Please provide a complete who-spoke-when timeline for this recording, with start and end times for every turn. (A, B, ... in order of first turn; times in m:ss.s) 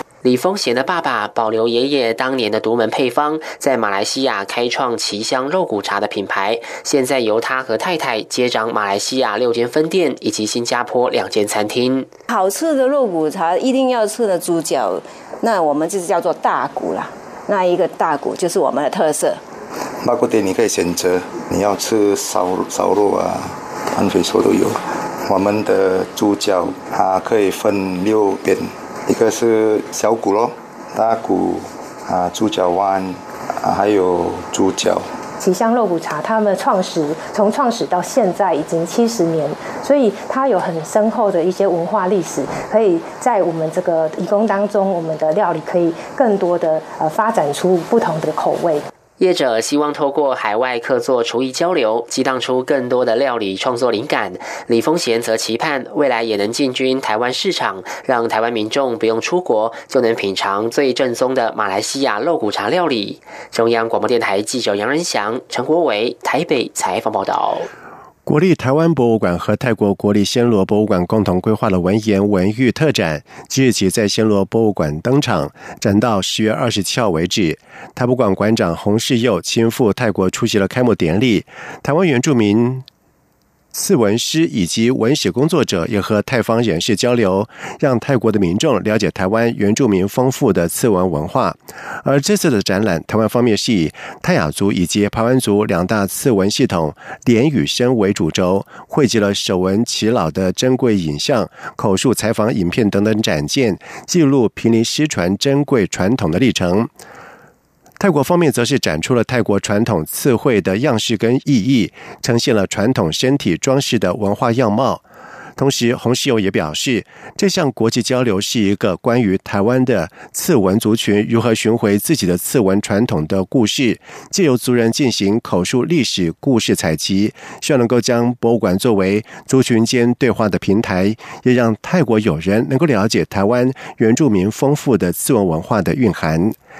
0:00.2-0:12.1 A
0:12.3-0:19.4 B
0:20.0-0:35.1 C
0:35.4-0:48.9 D
0:49.2-1:07.7 A
1:08.2-1:22.8 E
1:23.7-1:46.9 E
1:48.0-1:55.0 E
1:55.6-2:16.6 E